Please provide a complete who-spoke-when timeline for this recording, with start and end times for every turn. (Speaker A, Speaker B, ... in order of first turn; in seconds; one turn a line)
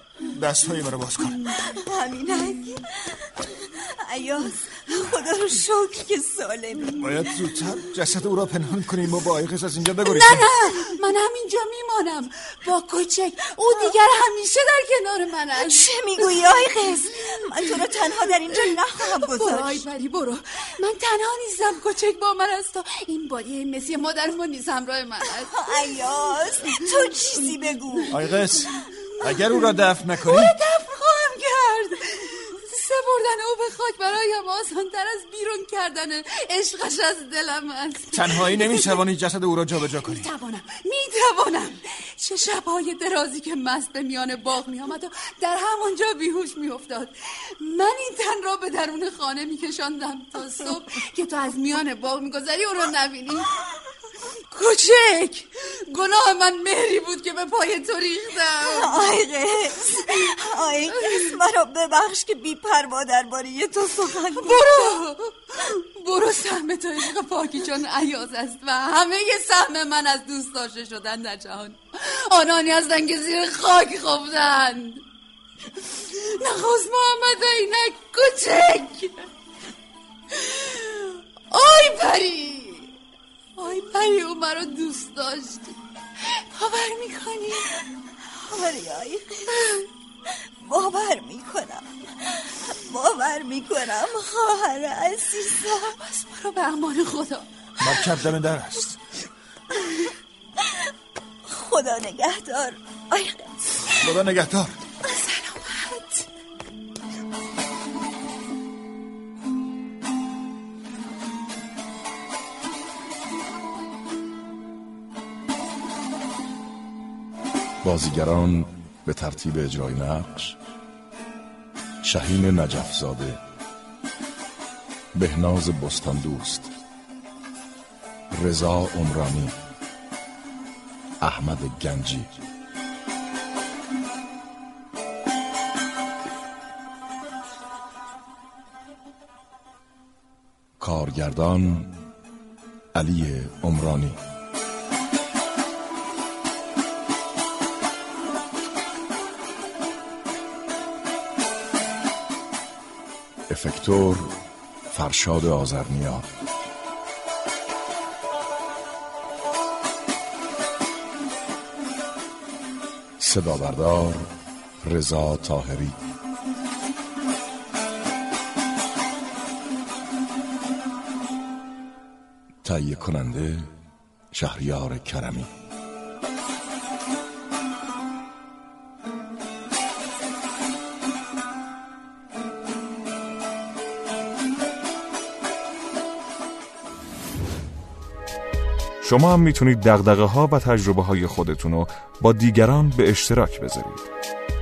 Speaker A: 0.2-1.4
Speaker B: 1.5-7.3
Speaker A: 7.0-10.5
Speaker C: 10.0-15.9
Speaker B: 15.6-19.8
Speaker C: 19.2-25.9
Speaker B: 25.5-28.2
Speaker A: 28.1-30.6
Speaker C: 29.1-39.0
Speaker A: 38.1-40.3
Speaker C: 40.0-53.5
Speaker C: 54.5-59.0
Speaker B: 58.6-65.0
Speaker C: 61.0-61.3
Speaker C: 64.4-75.0
Speaker C: 75.8-79.3
Speaker C: 80.3-82.9
Speaker C: 83.6-87.7
Speaker B: 88.3-89.7
Speaker B: 90.3-96.0
Speaker C: 95.9-97.9
Speaker A: 97.8-99.0
Speaker B: 100.6-100.9
Speaker B: 101.5-104.0
Speaker A: 103.9-104.8
Speaker C: 105.0-106.3
Speaker D: 117.8-120.6
Speaker D: 122.0-123.4
Speaker D: 125.1-126.7
Speaker D: 128.3-129.5
Speaker D: 131.2-132.3
Speaker D: 140.8-141.9
Speaker D: 142.9-144.2
Speaker D: 153.5-154.3
Speaker D: 154.9-156.3
Speaker D: 163.2-166.0
Speaker D: 172.6-173.7
Speaker D: 174.3-175.5
Speaker E: 189.0-194.1